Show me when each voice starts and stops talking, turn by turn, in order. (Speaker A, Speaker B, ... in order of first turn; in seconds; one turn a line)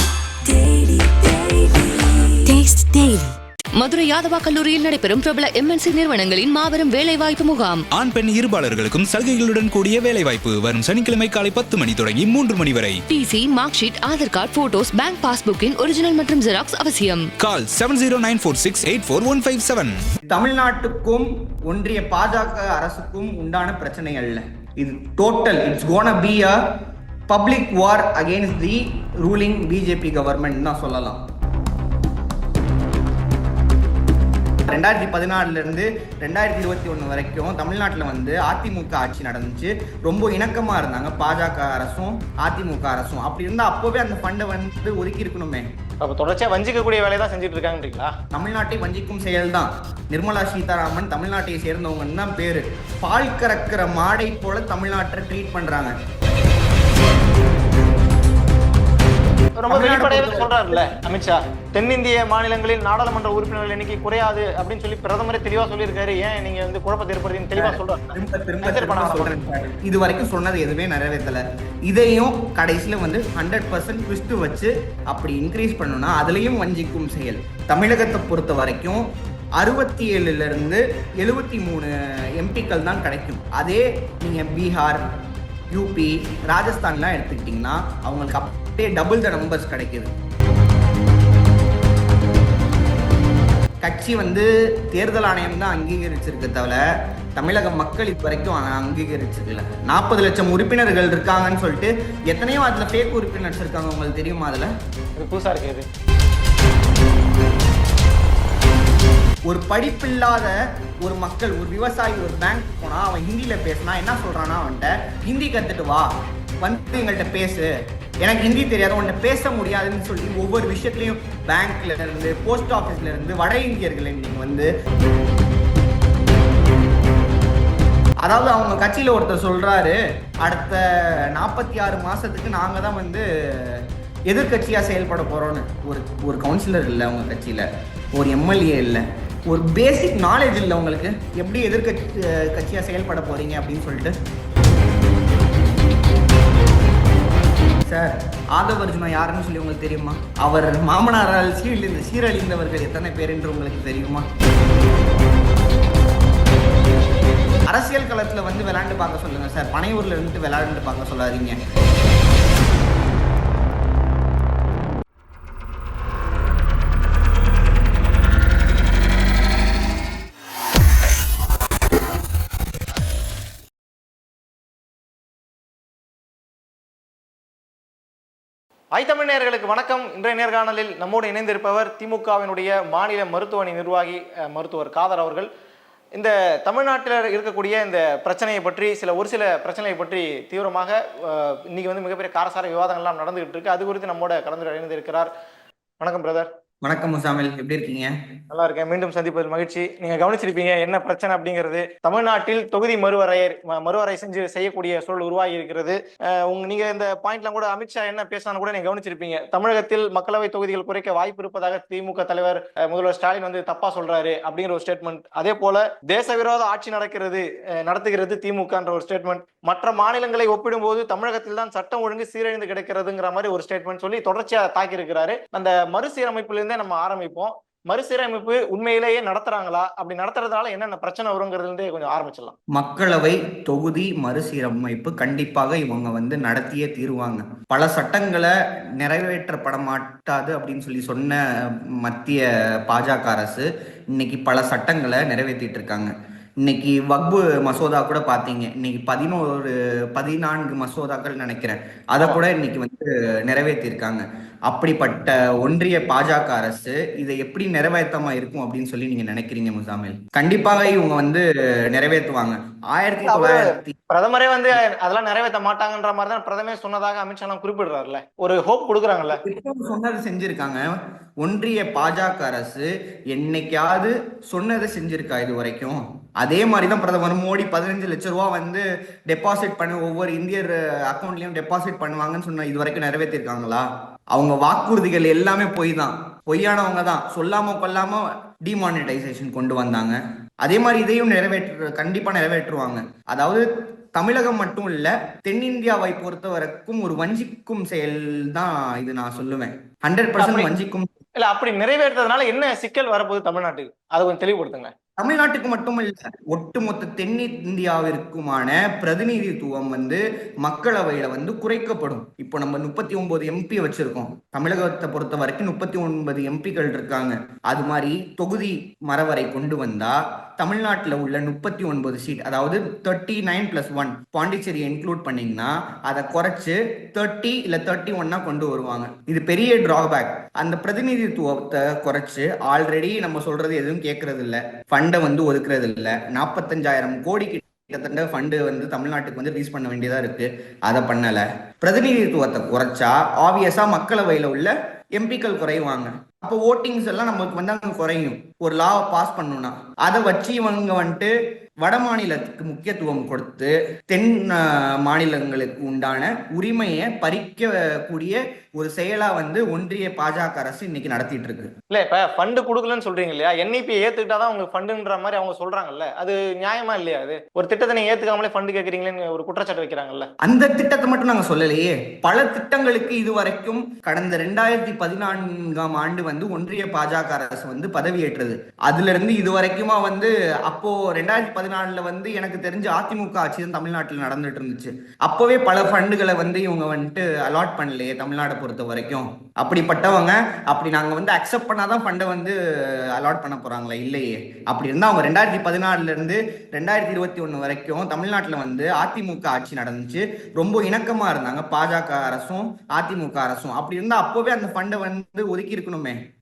Speaker A: 0.5-7.9
Speaker B: 7.9-13.0
Speaker A: 13.1-17.3
Speaker B: 17.4-20.0
Speaker C: 20.3-26.6
Speaker C: 27.3-31.2
Speaker C: 34.7-45.7
Speaker D: 46.0-48.1
Speaker C: 48.3-56.0
Speaker D: 59.6-69.4
Speaker C: 59.7-60.9
Speaker C: 67.6-85.0
Speaker C: 85.7-90.1
Speaker C: 93.8-96.8
Speaker C: 97.4-104.7
Speaker D: 105.2-105.9
Speaker C: 109.5-117.7
Speaker C: 118.2-124.7
Speaker C: 128.2-144.2
Speaker C: 147.9-154.3
Speaker C: 157.7-161.6
Speaker D: 178.9-185.5
Speaker D: 186.2-195.3
Speaker D: 196.0-196.5
Speaker C: 196.8-198.1
Speaker D: 198.5-232.6
Speaker C: 232.7-263.9
Speaker D: 263.2-269.4
Speaker C: 269.3-270.9
Speaker C: 271.4-301.1
Speaker D: 300.4-300.7
Speaker D: 301.4-304.9
Speaker C: 305.2-361.7
Speaker D: 361.9-370.3
Speaker C: 370.4-406.2